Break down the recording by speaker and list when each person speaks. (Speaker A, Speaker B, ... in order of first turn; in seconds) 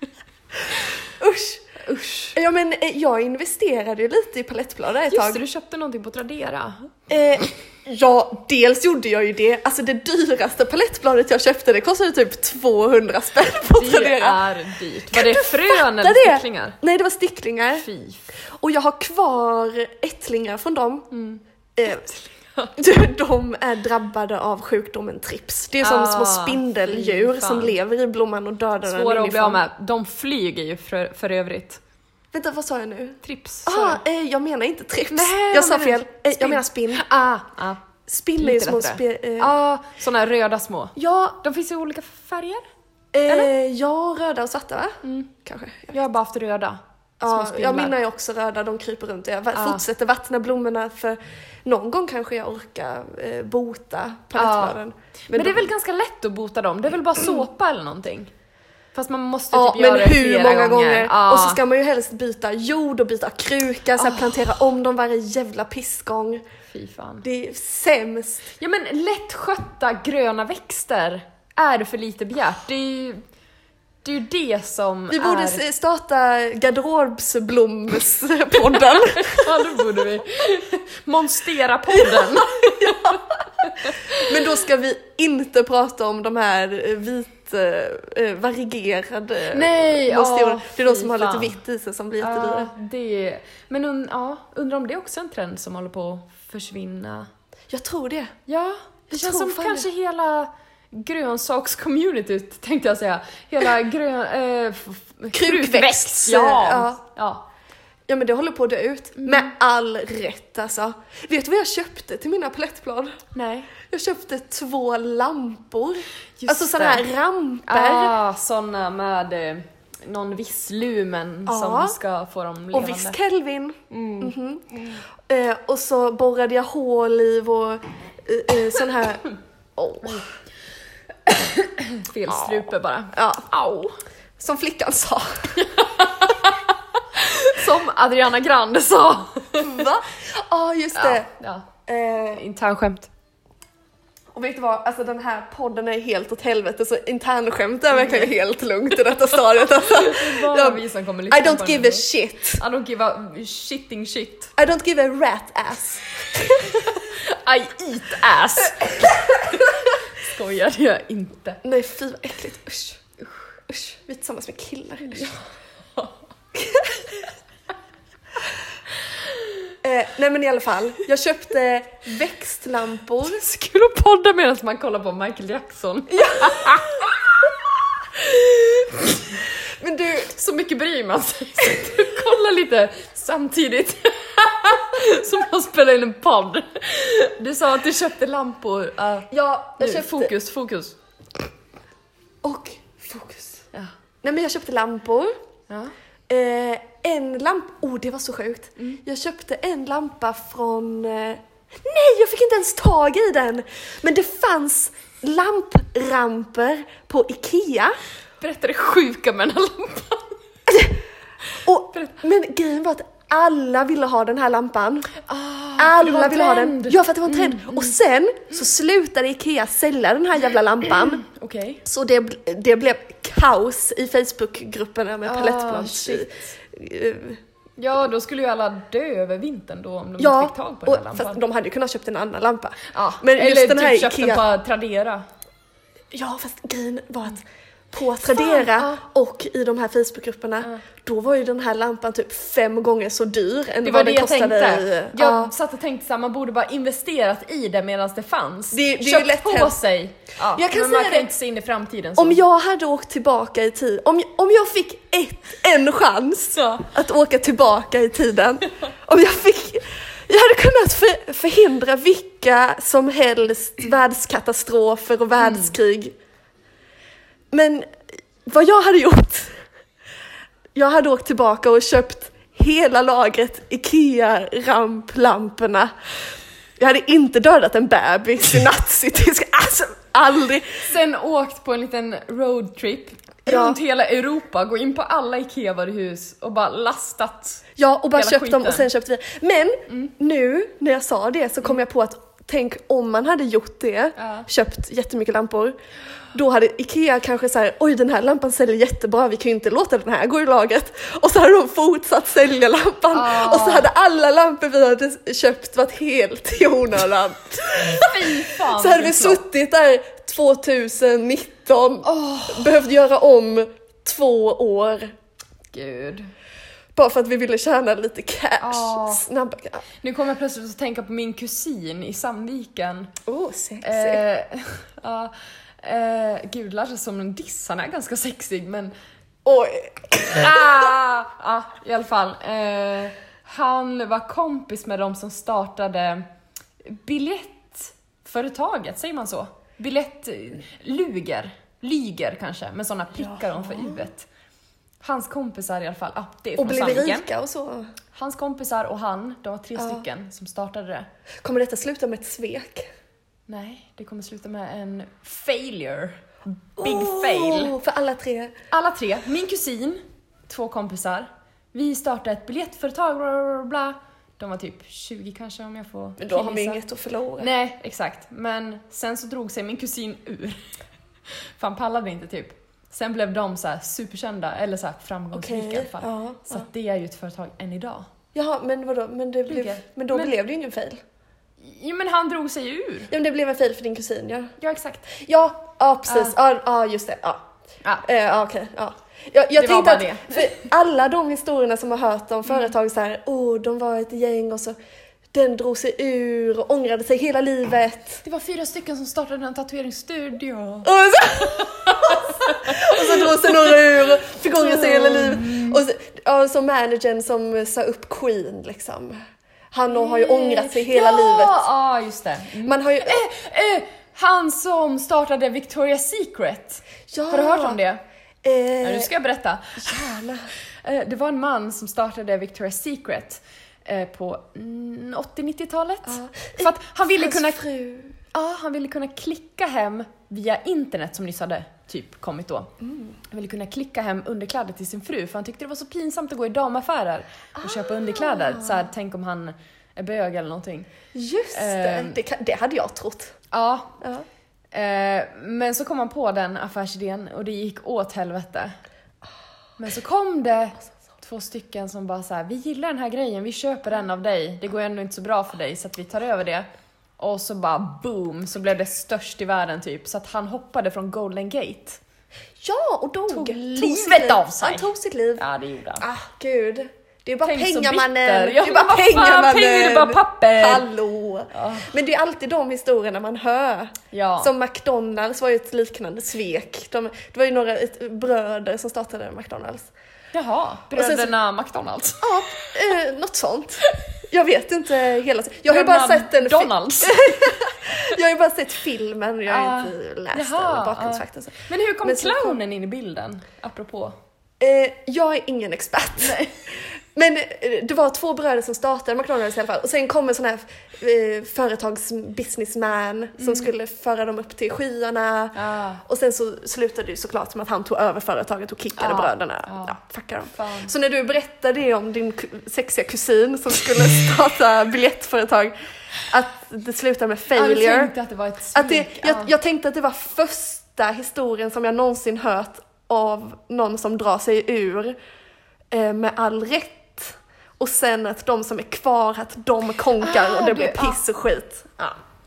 Speaker A: 0.7-1.6, 2.3-5.4, 7.1-14.4, 15.1-17.9, 18.5-21.1, 21.8-22.0, 22.8-29.6, 32.3-37.0, 38.1-39.5, 41.0-41.3, 43.1-46.1, 47.2-55.7, 59.5-66.4, 67.2-68.5, 75.1-79.8, 81.9-92.7, 97.7-98.3, 99.1-99.9, 105.3-107.0, 108.1-113.2, 113.8-118.2, 121.5-122.0, 122.7-129.2, 129.8-130.2, 132.3-132.6, 133.1-133.4, 134.4-135.6, 139.6-141.3, 141.8-142.4, 144.3-152.6, 154.6-156.9, 158.9-159.6, 161.6-163.0, 163.7-165.4, 166.5-167.2, 169.8-173.4, 176.1-177.1, 179.8-180.3, 189.3-190.3, 192.4-193.6, 194.2-195.3, 196.3-207.9, 210.7-211.0, 211.6-215.1, 215.8-221.2, 221.8-227.4, 230.2-234.4, 236.1-245.5, 248.7-249.8, 250.5-251.3, 252.2-266.1, 267.5-269.6, 270.7-275.9, 276.8-280.8, 283.4-283.8, 287.8-295.8, 296.3-315.1, 316.9-319.8, 323.2-324.2, 329.4-330.9, 343.2-344.1, 346.6-347.9, 349.8-350.0, 351.4-352.9, 356.8-358.5, 366.2-367.5, 375.3-376.6, 378.3-381.0, 383.1-384.5, 385.1-387.5, 388.0-394.8, 395.3-398.2, 400.8-409.2, 409.7-411.6, 412.6-413.2, 417.1-417.8, 418.4-419.1, 419.8-420.5, 426.1-428.2, 432.8-433.1, 437.6-438.9, 441.1-443.3, 444.0-444.2, 462.6-465.4, 466.0-479.9, 480.9-481.3, 482.2-492.6, 494.6-518.1, 518.7-525.1, 525.9-532.2
Speaker B: 1.8-2.4, 5.1-6.9, 13.7-16.8, 17.8-18.2, 21.1-22.7, 25.8-27.8, 28.9-31.8, 33.2-34.0, 35.1-42.7, 43.3-43.5, 45.0-45.3, 45.9-48.0, 49.5-49.8, 54.4-54.8, 55.3-58.3, 58.9-61.6, 64.0-64.5, 66.7-67.2, 68.6-73.2, 74.0-75.6, 78.9-84.6, 89.5-91.6, 92.2-97.3, 98.5-107.5, 109.2-109.5, 113.3-113.7, 116.4-117.1, 117.7-123.2, 123.9-124.3, 130.0-130.3, 131.3-134.0, 135.5-139.8, 140.9-141.7, 142.3-143.1, 147.9-148.3, 149.7-152.0, 152.6-154.5, 156.7-161.6, 173.2-177.3, 178.2-179.3, 180.3-190.9, 208.4-210.3, 215.3-217.9, 220.9-221.8, 225.2-226.4, 227.8-231.4, 232.9-235.2, 238.3-239.0, 243.8-252.4, 256.6-256.9, 265.4-265.7, 280.8-287.6, 288.1-288.9, 294.2-294.5, 303.1-303.9, 307.8-309.4, 312.0-312.8, 315.7-316.3, 318.6-319.2, 320.0-323.1, 323.8-328.9, 330.3-336.2, 336.8-344.3, 345.0-347.3, 348.1-351.1, 353.5-357.7, 358.7-366.8, 367.4-370.6, 371.6-378.1, 379.5-380.3, 381.6-383.1, 384.6-385.1, 386.1-386.3, 389.6-390.6, 398.2-403.8, 404.3-405.8, 409.9-418.0, 418.8-419.9, 420.8-427.6, 428.3-432.7, 433.3-440.9, 441.5-442.2, 443.5-444.0, 444.7-448.8, 449.8-456.7, 457.2-462.0, 463.3-466.1, 467.4-470.9, 471.5-471.9, 474.1-474.5, 480.3-482.7, 485.7-487.6, 489.5-494.1, 496.2-496.5, 503.4-503.7, 505.5-506.0, 509.0-510.0, 510.5-510.9, 517.5-519.5, 530.2-531.2